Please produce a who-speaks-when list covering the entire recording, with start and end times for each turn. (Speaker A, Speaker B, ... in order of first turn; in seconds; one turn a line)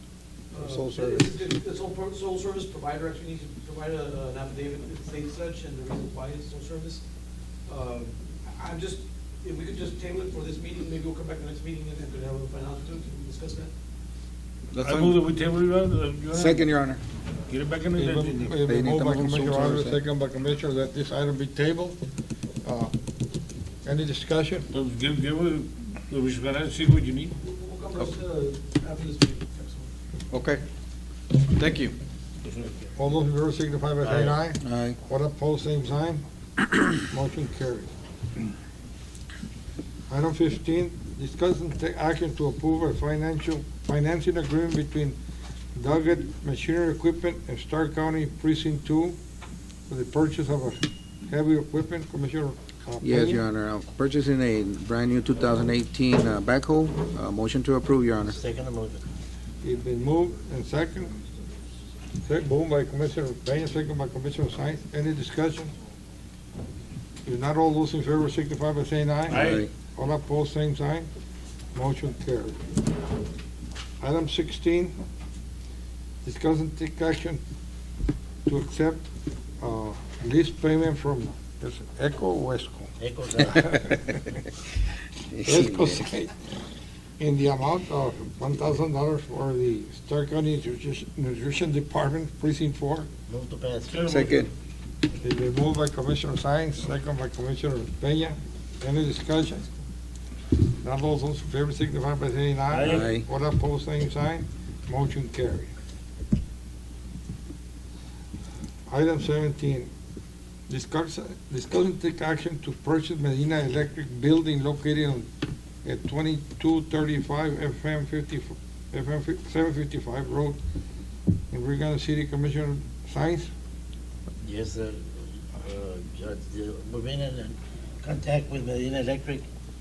Speaker A: 0.5-7.0
Speaker B: 0.5-1.3
Speaker A: 7.7-13.7
Speaker B: 14.7-15.2
Speaker C: 14.8-16.7
Speaker B: 16.3-17.0
Speaker C: 17.5-18.5
Speaker D: 17.9-22.0
Speaker B: 18.5-20.0
Speaker D: 22.6-22.9
Speaker D: 23.8-24.7
Speaker C: 24.7-27.3
Speaker A: 27.4-29.9
Speaker B: 30.3-30.6
Speaker A: 31.5-31.9
Speaker D: 32.9-36.2
Speaker E: 34.0-34.4
Speaker B: 34.6-35.0
Speaker D: 36.9-37.9
Speaker D: 40.1-45.2
Speaker D: 45.8-49.2
Speaker D: 49.9-53.4
Speaker B: 53.0-58.4
Speaker E: 58.2-59.0
Speaker D: 59.6-61.1
Speaker D: 62.2-65.7
Speaker D: 67.2-71.1
Speaker B: 69.3-69.7
Speaker C: 69.3-69.6
Speaker D: 71.7-72.6
Speaker D: 74.0-74.9
Speaker D: 76.2-77.4
Speaker D: 78.5-79.1
Speaker D: 79.6-82.9
Speaker E: 83.0-83.5
Speaker B: 83.6-83.9
Speaker B: 85.2-86.0
Speaker D: 85.4-86.3
Speaker D: 87.2-93.1
Speaker E: 93.3-94.0
Speaker C: 93.9-94.5
Speaker B: 93.9-94.5
Speaker D: 95.2-99.7
Speaker D: 100.8-105.7
Speaker C: 102.7-103.1
Speaker B: 102.8-103.2
Speaker D: 108.9-109.9
Speaker D: 110.7-115.3
Speaker D: 115.8-120.6
Speaker D: 121.5-123.5
Speaker E: 124.4-129.4